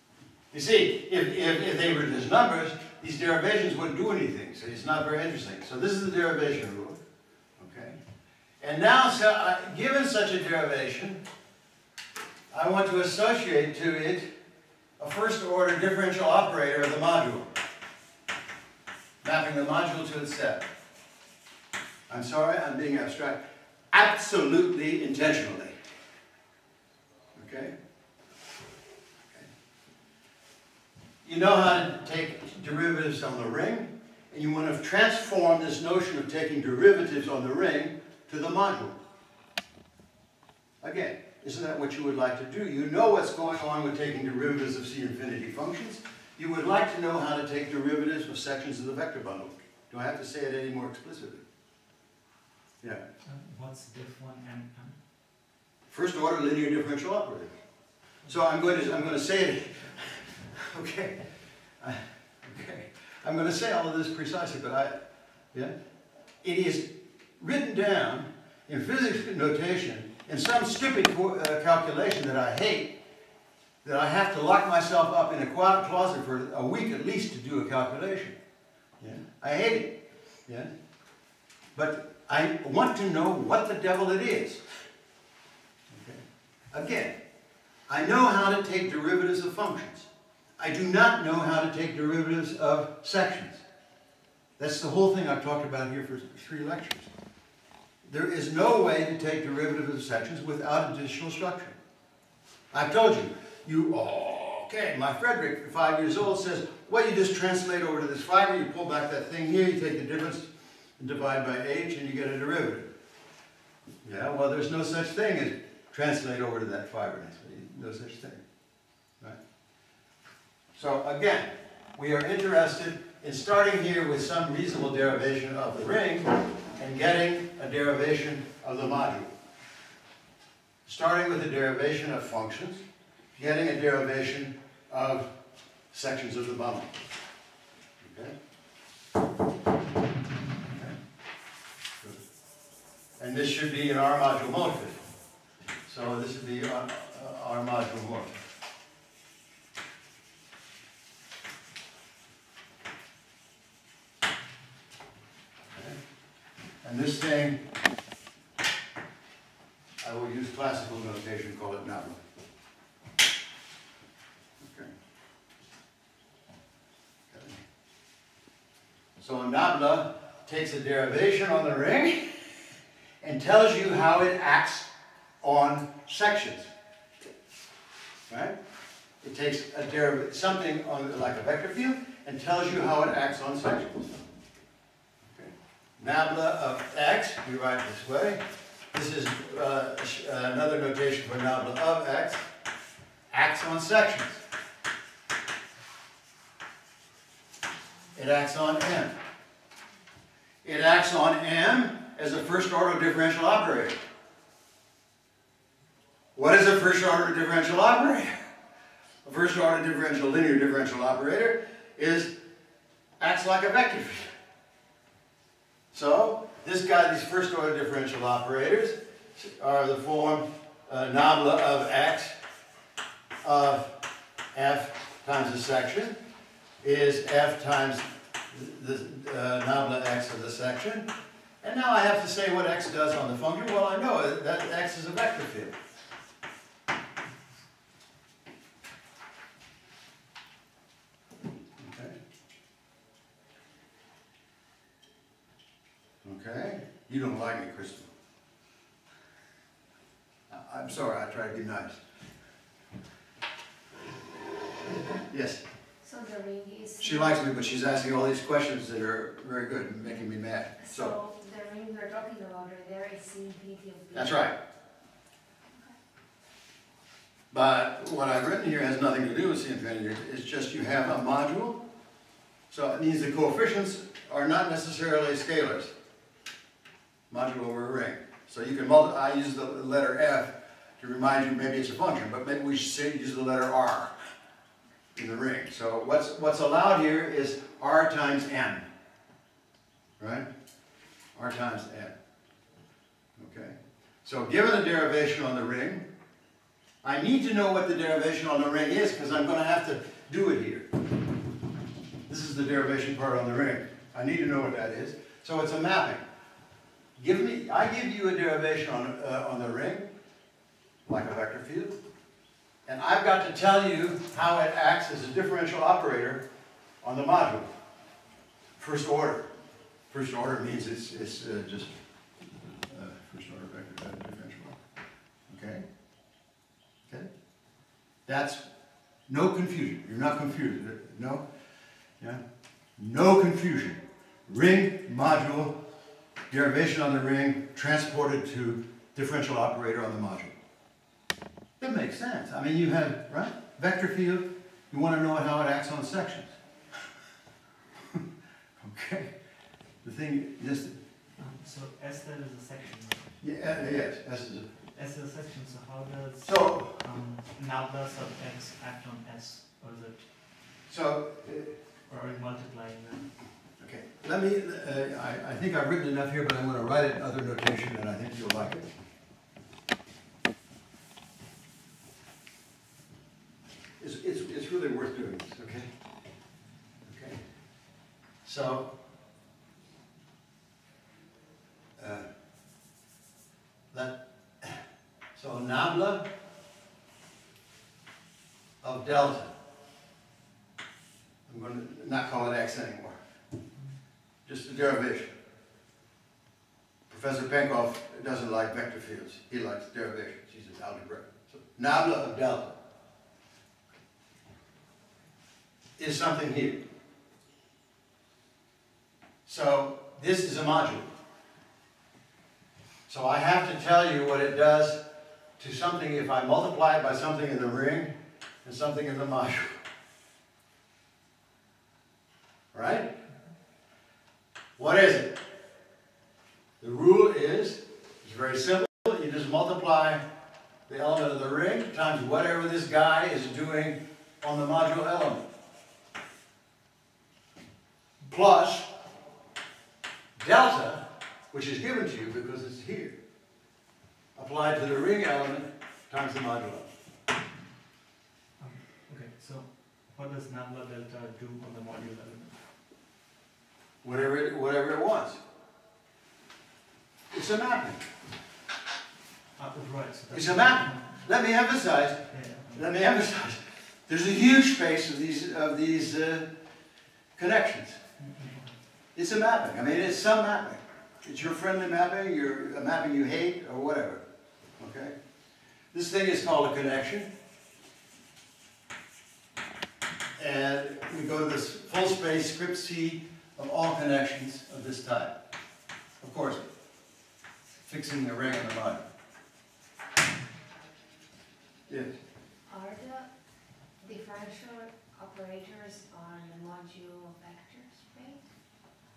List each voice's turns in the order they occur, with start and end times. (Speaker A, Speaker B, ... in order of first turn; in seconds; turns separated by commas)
Speaker A: 0.5-7.0, Speaker A: 7.6-8.0, Speaker A: 8.6-11.2, Speaker A: 12.5-14.3, Speaker A: 15.0-17.5, Speaker A: 19.2-20.7, Speaker A: 22.1-25.7, Speaker A: 27.4-27.8, Speaker A: 31.2-39.0, Speaker A: 40.8-51.4, Speaker B: 53.2-55.0, Speaker A: 55.9-57.5, Speaker A: 58.3-61.2, Speaker A: 61.8-65.0, Speaker A: 66.4-73.0, Speaker A: 73.8-78.4, Speaker A: 79.0-80.7, Speaker A: 81.8-84.6, Speaker A: 85.9-86.2, Speaker A: 86.7-87.2, Speaker A: 87.9-93.6, Speaker A: 94.6-97.1, Speaker A: 98.0-101.8, Speaker A: 102.7-112.9, Speaker A: 114.0-118.4, Speaker A: 120.8-129.3, Speaker A: 130.9-132.8, Speaker A: 133.3-135.3, Speaker A: 135.9-137.0, Speaker A: 138.0-138.3, Speaker A: 140.7-141.0, Speaker A: 143.2-145.0, Speaker A: 145.9-148.4, Speaker A: 155.7-156.0, Speaker A: 156.8-157.6, Speaker A: 160.0-162.2, Speaker A: 164.6-164.9, Speaker A: 167.3-167.6, Speaker A: 169.2-172.5, Speaker A: 173.2-174.9, Speaker A: 175.4-176.7, Speaker A: 178.3-178.6, Speaker A: 179.2-184.2, Speaker A: 185.3-192.5, Speaker A: 193.3-194.4, Speaker A: 198.2-199.1, Speaker A: 200.6-204.0, Speaker A: 206.3-208.4, Speaker A: 209.2-212.3, Speaker A: 213.2-214.3, Speaker A: 215.9-222.4, Speaker A: 223.4-224.0, Speaker A: 224.5-226.1, Speaker A: 226.8-231.1, Speaker A: 231.6-235.8, Speaker A: 241.8-242.2, Speaker A: 246.2-248.1, Speaker A: 250.5-252.0, Speaker A: 255.1-255.6, Speaker C: 256.0-257.4, Speaker A: 257.0-261.1, Speaker C: 260.8-264.4, Speaker A: 264.1-264.6, Speaker A: 267.5-271.8, Speaker A: 272.7-275.9, Speaker A: 277.3-284.1, Speaker A: 285.1-288.8, Speaker A: 290.2-290.5, Speaker A: 291.4-292.1, Speaker A: 293.4-296.1, Speaker A: 297.0-300.9, Speaker A: 302.3-306.2, Speaker A: 307.2-310.1, Speaker A: 311.1-312.0, Speaker A: 312.9-316.5, Speaker A: 317.0-317.7, Speaker A: 318.8-319.5, Speaker A: 320.1-321.9, Speaker A: 322.9-324.8, Speaker A: 325.5-325.9, Speaker A: 328.3-328.6, Speaker A: 329.3-331.4, Speaker A: 333.0-335.8, Speaker A: 336.5-340.5, Speaker A: 341.8-346.5, Speaker A: 348.8-349.3, Speaker A: 350.0-351.0, Speaker B: 351.4-353.4, Speaker A: 353.4-354.7, Speaker B: 354.9-360.3, Speaker A: 356.4-357.0, Speaker A: 360.9-361.8, Speaker B: 362.1-363.3, Speaker A: 363.8-368.9, Speaker A: 374.0-375.9, Speaker A: 377.0-377.4, Speaker A: 378.4-378.9, Speaker A: 382.0-382.3, Speaker A: 383.9-384.8, Speaker A: 385.4-386.3, Speaker A: 388.8-389.5, Speaker A: 391.5-393.2, Speaker A: 394.4-395.3, Speaker A: 397.1-402.8, Speaker A: 406.0-406.8, Speaker A: 409.5-411.1, Speaker A: 413.1-415.0, Speaker A: 415.6-419.8, Speaker A: 422.7-423.1, Speaker A: 424.8-425.4, Speaker A: 426.8-430.2, Speaker A: 430.9-435.4, Speaker A: 438.2-438.9, Speaker A: 440.4-443.2, Speaker A: 444.4-446.9, Speaker B: 448.6-452.6, Speaker A: 454.0-455.4, Speaker A: 457.3-458.1, Speaker B: 459.6-461.3, Speaker A: 460.3-466.5, Speaker B: 462.3-462.9, Speaker A: 467.4-468.0, Speaker B: 468.2-468.8, Speaker A: 469.1-474.2, Speaker A: 474.8-475.1, Speaker A: 475.9-477.3, Speaker A: 480.4-485.4, Speaker A: 486.2-486.6, Speaker A: 487.9-489.1, Speaker A: 491.9-492.1, Speaker C: 492.7-493.3, Speaker C: 494.0-498.4